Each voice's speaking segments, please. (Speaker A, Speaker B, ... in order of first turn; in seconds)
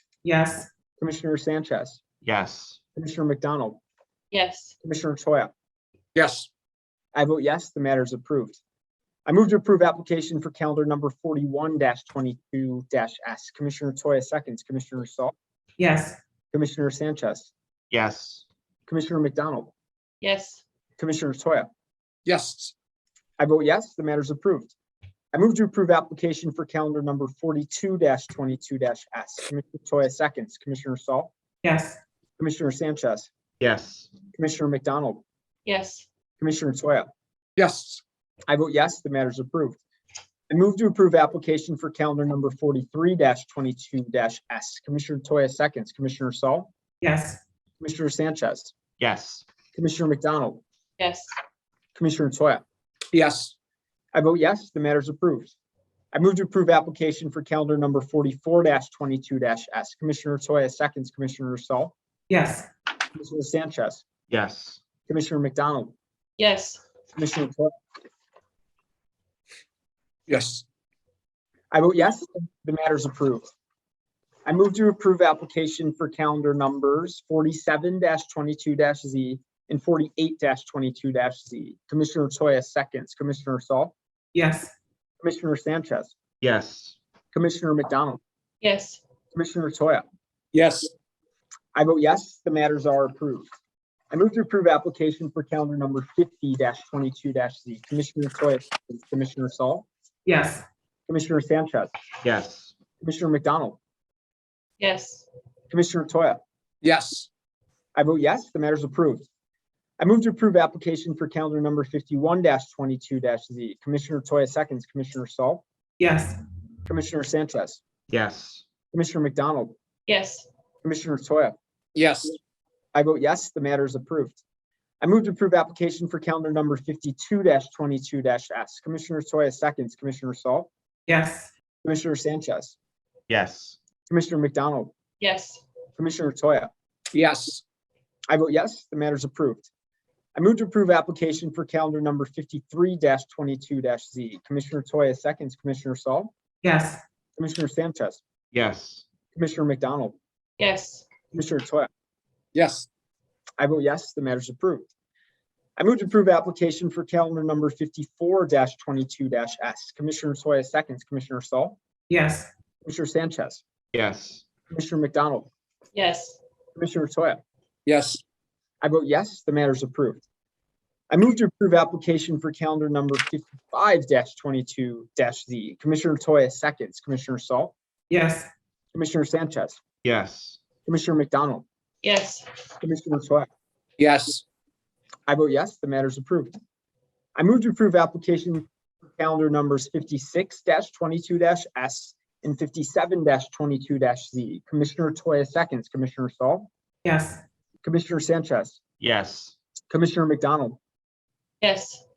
Speaker A: 0.2-0.7, 15.8-16.2, 31.6-32.0, 47.0-47.4, 62.3-62.7, 84.3-84.7, 100.3-100.6, 116.0-116.4, 131.1-131.5, 146.6-147.0, 162.1-162.5, 178.1-178.5, 197.1-197.4
Speaker B: 1.0-2.0, 3.0-3.8, 4.8-5.5, 7.1-8.6, 9.3-15.3, 16.5-17.5, 18.9-19.7, 21.0-21.7, 23.4-24.7, 25.3-31.3, 32.4-33.3, 34.4-35.2, 36.4-37.1, 38.5-39.8, 40.5-46.7, 47.8-48.8, 49.8-50.6, 52.0-52.6, 54.1-55.5, 56.1-61.9, 63.1-64.0, 65.1-66.0, 67.2-67.7, 71.7-73.5, 74.5-83.9, 85.2-86.2, 87.3-88.2, 89.3-90.0, 91.8-93.5, 94.1-99.9, 101.1-101.9, 103.0-103.8, 105.7-106.4, 108.0-109.3, 110.0-115.6, 116.9-117.8, 118.9-119.8, 120.8-121.5, 122.9-124.4, 125.0-130.7, 131.8-132.8, 134.1-134.9, 136.0-136.7, 138.3-139.7, 140.3-146.3, 147.4-148.2, 149.3-150.2, 151.3-151.9, 153.6-154.9, 155.8-161.8, 162.8-163.6, 164.7-165.5, 166.8-167.4, 168.8-170.2, 171.1-177.7, 178.9-179.8, 180.8-181.7, 182.8-183.5, 185.3-186.5, 187.4-196.7, 197.8-198.8, 199.9-200.8
Speaker C: 2.2-2.8, 17.9-18.4, 33.6-34.1, 49.0-49.5, 64.3-64.8, 86.4-87.0, 102.2-102.7, 118.1-118.6, 133.3-133.8, 148.5-149.1, 163.9-164.4, 180.0-180.6, 199.0-199.6
Speaker D: 4.3-4.8, 20.2-20.6, 35.7-36.1, 51.0-51.3, 66.4-66.8, 88.6-89.0, 104.8-105.3, 120.1-120.5, 135.2-135.6, 150.6-151.1, 165.9-166.4, 182.0-182.5, 201.6-202.0
Speaker E: 6.2-6.5, 22.3-22.7, 37.6-38.0, 53.1-53.5, 70.3-70.6, 90.5-90.9, 106.8-107.3, 122.0-122.4, 137.1-137.6, 152.5-152.9, 167.9-168.2, 184.0-184.4